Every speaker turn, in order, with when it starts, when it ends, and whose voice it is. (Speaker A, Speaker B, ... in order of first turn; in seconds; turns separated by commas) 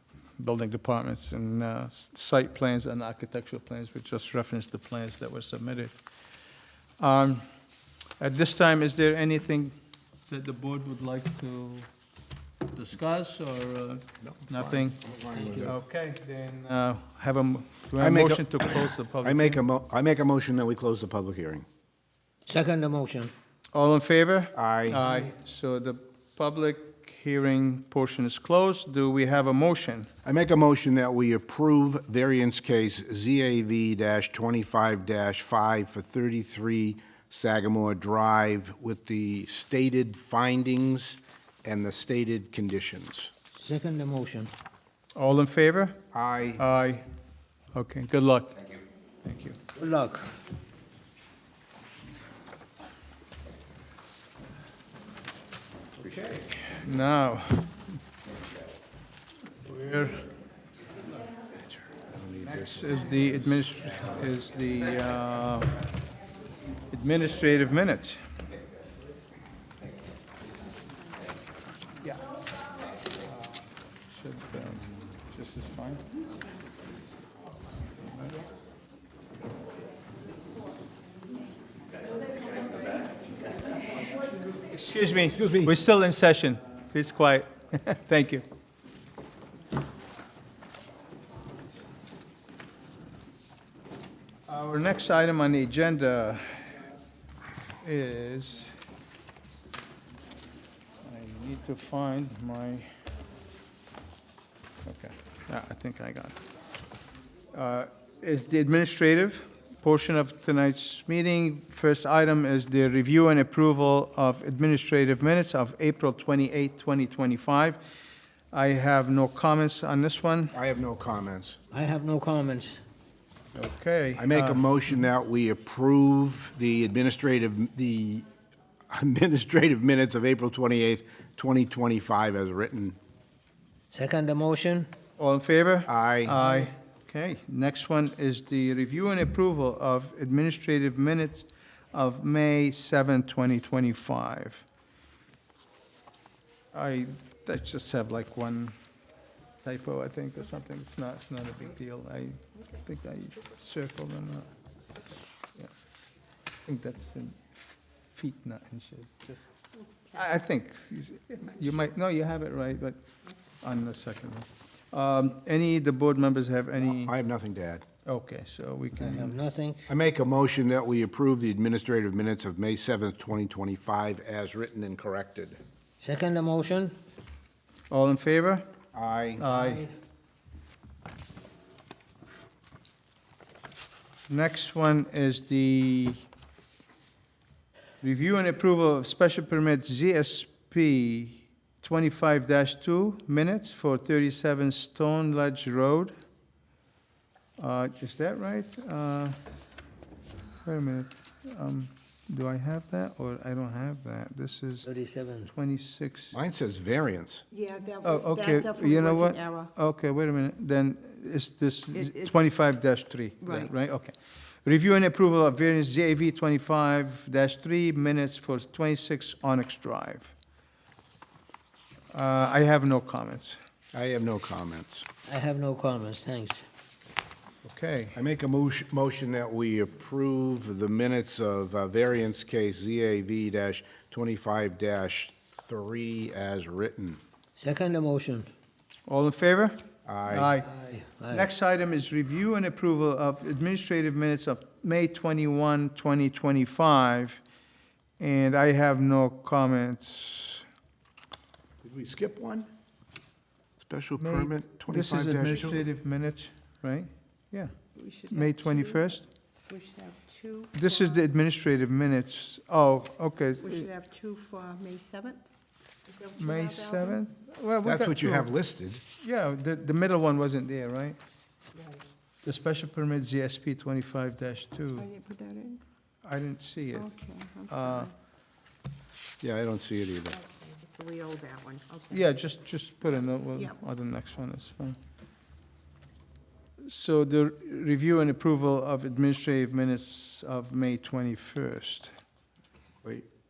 Speaker A: 0.4-6.0, Speaker A: 7.0-7.4, Speaker A: 8.2-9.7, Speaker A: 10.3-11.9, Speaker A: 12.7-15.0, Speaker B: 14.2-15.7, Speaker C: 15.3-15.7, Speaker A: 15.6-19.6, Speaker B: 18.0-21.6, Speaker C: 22.4-23.3, Speaker A: 23.7-30.1, Speaker B: 24.5-25.0, Speaker B: 30.2-43.3, Speaker C: 43.5-44.5, Speaker A: 45.1-46.0, Speaker B: 46.1-46.6, Speaker A: 46.6-47.0, Speaker A: 47.7-48.7, Speaker A: 49.2-49.6, Speaker C: 49.8-50.3, Speaker B: 56.0-56.4, Speaker A: 56.6-57.7, Speaker A: 59.6-60.3, Speaker B: 61.9-63.8, Speaker A: 62.4-65.8, Speaker A: 66.9-68.2, Speaker D: 70.6-71.4, Speaker A: 72.0-72.3, Speaker A: 73.2-76.0, Speaker A: 84.5-88.4, Speaker B: 85.3-85.7, Speaker A: 94.5-96.8, Speaker A: 97.8-98.8, Speaker A: 101.0-102.9, Speaker A: 104.8-106.4, Speaker A: 107.5-117.8, Speaker A: 118.5-120.5, Speaker B: 120.5-121.6, Speaker C: 121.7-122.8, Speaker A: 123.5-125.0, Speaker B: 124.2-128.2, Speaker B: 128.9-133.0, Speaker C: 133.9-134.9, Speaker A: 135.2-144.6, Speaker B: 135.9-136.4, Speaker A: 146.7-148.7, Speaker A: 149.6-154.5, Speaker A: 156.7-159.5, Speaker A: 160.1-163.0, Speaker A: 163.6-167.1, Speaker B: 166.8-167.8, Speaker A: 168.0-169.3, Speaker C: 169.0-169.9, Speaker B: 169.9-175.6, Speaker C: 176.0-177.0, Speaker A: 177.9-178.6, Speaker B: 178.9-179.4, Speaker A: 179.4-179.8, Speaker C: 179.4-179.9, Speaker A: 184.3-186.2, Speaker A: 188.0-196.1, Speaker A: 197.6-199.4, Speaker A: 200.6-204.9, Speaker C: 204.8-205.5, Speaker A: 205.5-206.3, Speaker B: 206.3-207.4, Speaker D: 207.5-209.7, Speaker A: 208.0-220.3, Speaker D: 213.4-213.7, Speaker A: 222.1-223.6, Speaker B: 223.9-225.1, Speaker C: 225.2-226.6, Speaker A: 227.6-228.2, Speaker B: 228.1-237.2, Speaker C: 237.6-238.5, Speaker A: 239.1-240.7, Speaker B: 240.0-240.5, Speaker C: 240.6-241.5, Speaker A: 241.3-247.4, Speaker A: 248.2-250.6, Speaker B: 251.8-252.7, Speaker B: 253.8-255.8, Speaker A: 254.2-257.7, Speaker D: 257.9-259.0, Speaker A: 258.3-259.3, Speaker D: 259.7-261.0, Speaker A: 260.7-263.9, Speaker D: 263.6-265.4, Speaker D: 266.0-267.2, Speaker A: 266.4-268.5, Speaker B: 267.8-269.0, Speaker A: 269.1-271.2, Speaker A: 272.4-275.1, Speaker D: 275.0-275.8, Speaker A: 276.2-277.1, Speaker D: 276.9-278.1, Speaker A: 277.7-278.1, Speaker B: 279.4-280.4, Speaker D: 280.4-282.2, Speaker A: 282.1-285.0, Speaker A: 286.8-292.1